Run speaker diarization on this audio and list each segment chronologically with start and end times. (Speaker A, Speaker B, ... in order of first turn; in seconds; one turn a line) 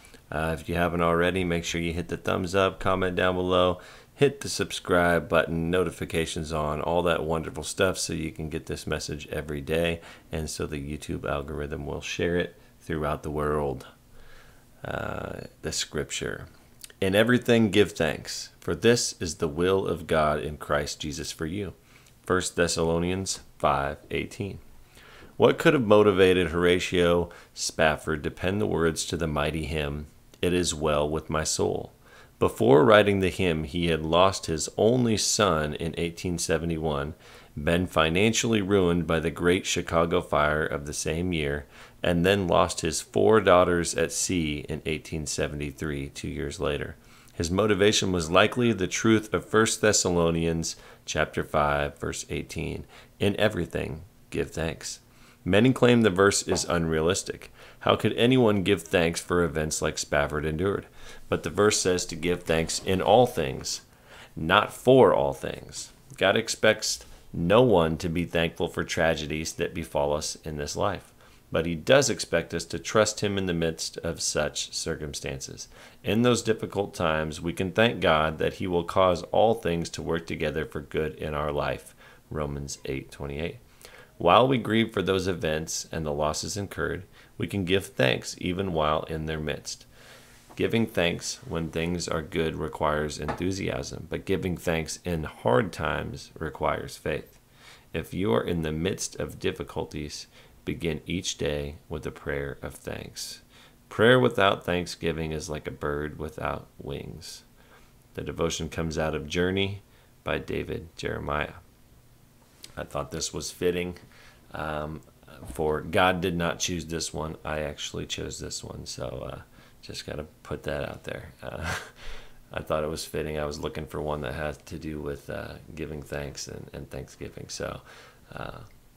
Speaker A: 0.3-13.9
Speaker A: 14.8-16.5
Speaker A: 17.0-24.6
Speaker A: 25.4-63.8
Speaker A: 64.3-83.6
Speaker A: 84.2-89.9
Speaker A: 90.5-97.4
Speaker A: 97.9-107.5
Speaker A: 108.1-111.5
Speaker A: 112.8-114.0
Speaker A: 114.5-128.7